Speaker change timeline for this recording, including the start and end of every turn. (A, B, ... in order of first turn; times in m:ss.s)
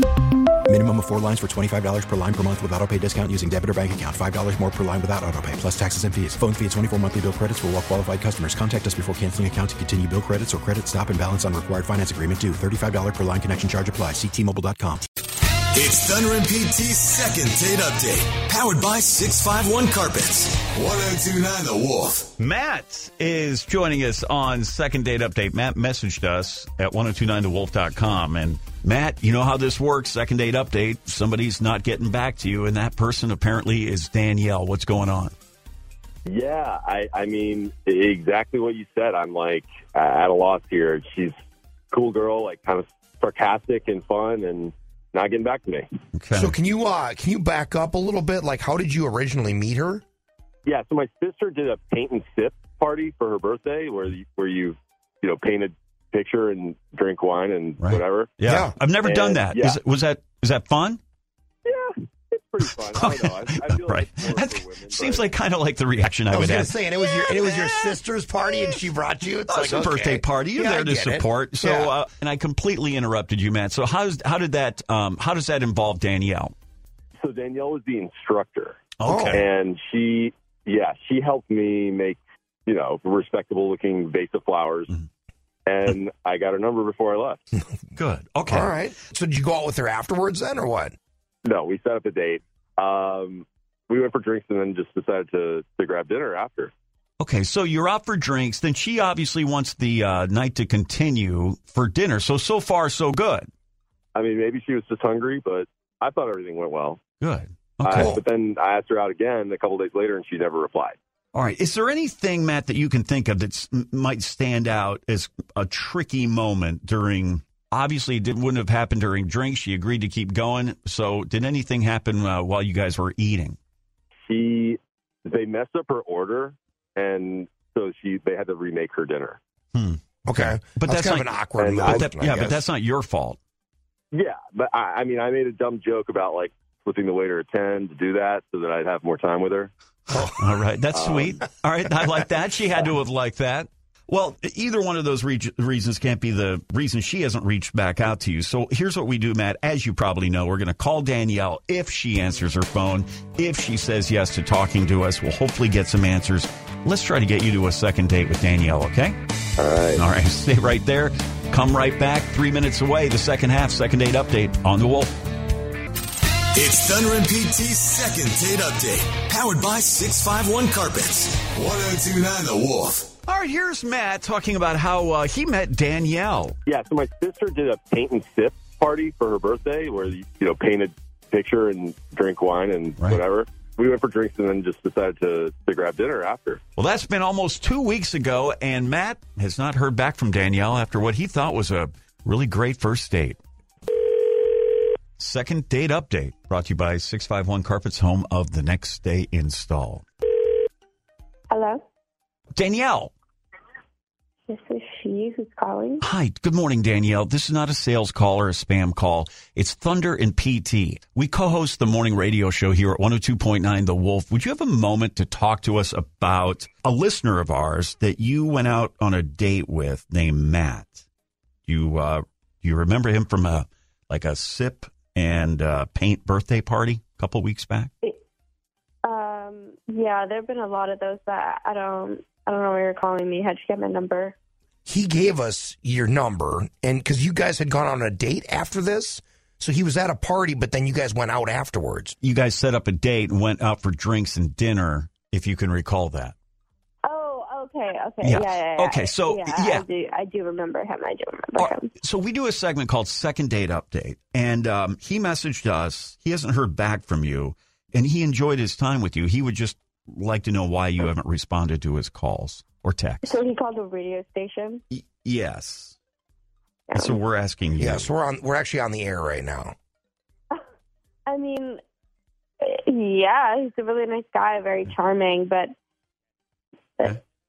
0:00.7-0:15.0 A
0:15.8-0:22.3 B
0:17.2-0:20.6 C
0:22.3-0:35.3 C
0:36.3-0:41.4 D
0:41.9-0:45.9 D
0:46.1-0:46.5 C
0:46.4-0:50.0 E
0:50.6-0:58.4 D
0:57.8-1:01.0 C
0:58.4-0:58.8 E
0:58.9-0:59.8 D
1:01.6-1:05.3 D
1:02.6-1:08.0 C
1:06.3-1:11.9 E
1:09.5-1:16.5 C
1:17.2-1:25.0 D
1:19.0-1:19.5 C
1:19.0-1:19.5 E
1:25.7-1:27.5 D
1:28.0-1:28.8 C
1:28.5-1:31.0 E
1:31.4-1:36.7 D
1:37.2-1:43.5 C
1:44.1-1:47.0 D
1:47.2-1:48.2 C
1:47.8-1:51.0 D
1:47.9-1:48.2 E
1:51.3-2:03.6 C
2:04.3-2:09.4 D
2:09.7-2:13.4 C
2:10.2-2:12.6 E
2:11.6-2:11.9 D
2:14.1-2:19.7 D
2:20.2-2:39.2 C
2:20.9-2:21.3 D
2:39.6-2:40.0 D
2:40.0-2:45.1 C
2:46.6-2:53.1 B
2:53.2-2:56.6 C
2:56.7-3:06.6 D
3:06.8-3:13.4 C
3:15.2-3:20.1 C
3:21.5-3:21.8 F
3:22.6-3:23.1 C
3:24.5-3:26.0 F
3:26.0-3:41.0 C
3:41.7-3:47.9 C
3:49.0-3:54.4 F
3:54.9-4:02.2 E
4:02.2-4:06.4 C
4:07.0-4:11.9 F
4:08.2-4:09.8 C
4:11.6-4:23.4 C
4:23.2-4:24.8 F
4:24.9-4:26.0 C
4:26.9-4:27.2 F
4:26.9-4:28.1 C
4:27.8-4:29.7 E
4:31.3-4:31.8 F
4:32.6-4:35.7 F